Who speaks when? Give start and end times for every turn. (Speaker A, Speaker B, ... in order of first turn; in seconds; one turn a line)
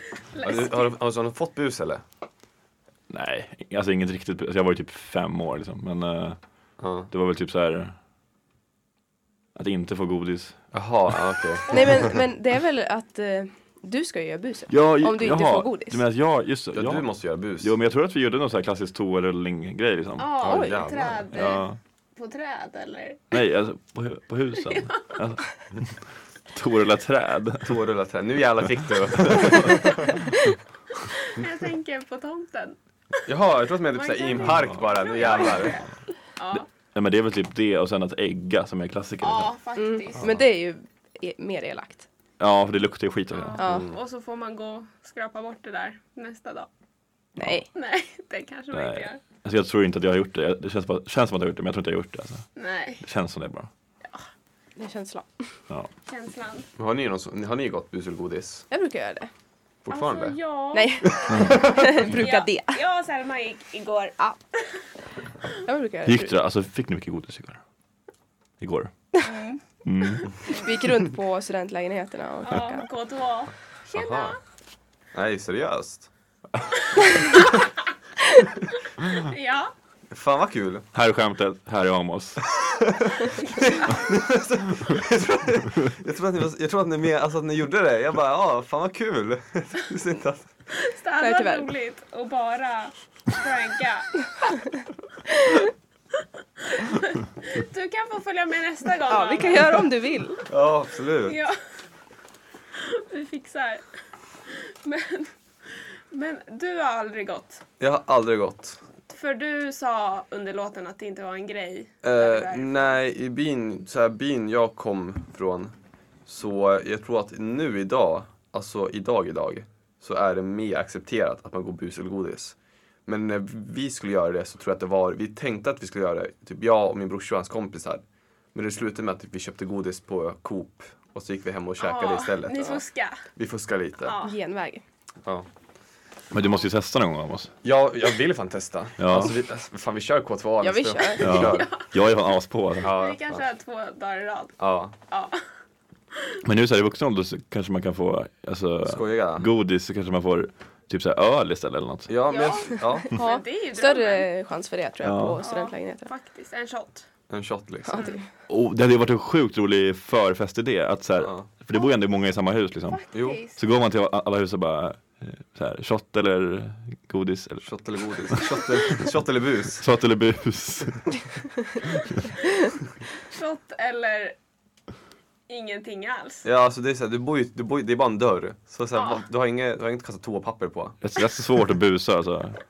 Speaker A: 0.3-0.9
Speaker B: 0.4-2.0
Speaker C: 3.1-6.4
Speaker B: 6.8-7.1
Speaker C: 7.1-8.0
Speaker C: 9.5-10.6
Speaker B: 10.7-12.2
Speaker D: 11.7-16.0
Speaker C: 14.7-17.1
Speaker B: 16.7-17.7
Speaker C: 17.6-20.6
Speaker A: 20.2-23.4
Speaker B: 20.4-21.5
Speaker D: 20.4-20.8
Speaker C: 21.3-21.8
Speaker C: 23.3-27.8
Speaker A: 24.6-25.0
Speaker B: 27.6-30.1
Speaker C: 29.2-30.1
Speaker A: 31.2-32.8
Speaker B: 33.3-35.8
Speaker A: 33.9-36.6
Speaker C: 34.4-34.8
Speaker C: 36.5-39.5
Speaker A: 39.2-40.3
Speaker D: 39.8-42.0
Speaker C: 42.4-43.7
Speaker A: 43.3-46.7
Speaker D: 43.6-43.9
Speaker B: 43.6-43.9
Speaker D: 47.4-47.7
Speaker A: 47.7-49.2
Speaker C: 48.7-52.5
Speaker A: 52.5-53.0
Speaker C: 53.0-53.7
Speaker D: 54.8-55.3
Speaker A: 56.0-56.7
Speaker B: 56.8-58.6
Speaker D: 58.7-59.3
Speaker B: 59.8-60.4
Speaker A: 59.9-64.8
Speaker D: 60.7-62.8
Speaker C: 61.3-61.6
Speaker D: 65.6-66.3
Speaker C: 66.0-67.6
Speaker C: 68.6-68.9
Speaker A: 69.2-69.6
Speaker C: 69.8-70.3
Speaker D: 70.5-72.9
Speaker A: 72.5-74.4
Speaker B: 73.9-74.4
Speaker B: 75.1-76.1
Speaker A: 76.9-77.7
Speaker A: 79.0-79.7
Speaker B: 80.1-80.9
Speaker C: 80.9-82.4
Speaker B: 82.7-90.5
Speaker A: 90.7-94.5
Speaker D: 91.2-91.7
Speaker A: 96.6-99.9
Speaker D: 99.1-100.4
Speaker B: 100.5-101.4
Speaker A: 101.2-101.6
Speaker A: 102.7-103.8
Speaker A: 104.5-105.3
Speaker A: 106.1-107.6
Speaker B: 107.8-108.8
Speaker A: 109.1-113.0
Speaker B: 112.0-115.7
Speaker B: 116.2-128.0
Speaker B: 128.5-132.8
Speaker A: 131.8-133.2
Speaker B: 133.3-134.2
Speaker A: 134.0-134.3
Speaker D: 134.2-134.8
Speaker C: 136.3-137.5
Speaker B: 137.6-141.7
Speaker C: 139.0-139.3
Speaker D: 140.6-141.5
Speaker C: 141.2-142.9
Speaker A: 141.3-141.9
Speaker B: 142.8-143.4
Speaker A: 142.8-145.4
Speaker B: 144.6-144.9
Speaker C: 146.4-152.1
Speaker B: 148.8-149.5
Speaker B: 152.1-153.1
Speaker A: 152.2-154.3
Speaker D: 152.9-156.1
Speaker C: 155.0-155.4
Speaker A: 155.4-157.1
Speaker B: 157.3-158.1
Speaker D: 157.8-158.2
Speaker A: 157.9-158.2
Speaker C: 158.5-167.7
Speaker B: 161.2-161.4
Speaker A: 162.9-163.6
Speaker B: 163.1-163.4
Speaker B: 167.6-169.8
Speaker C: 168.3-168.6
Speaker C: 169.8-172.2
Speaker A: 173.3-174.3
Speaker A: 175.5-176.4
Speaker B: 176.4-181.0
Speaker A: 178.9-179.2
Speaker C: 181.0-182.6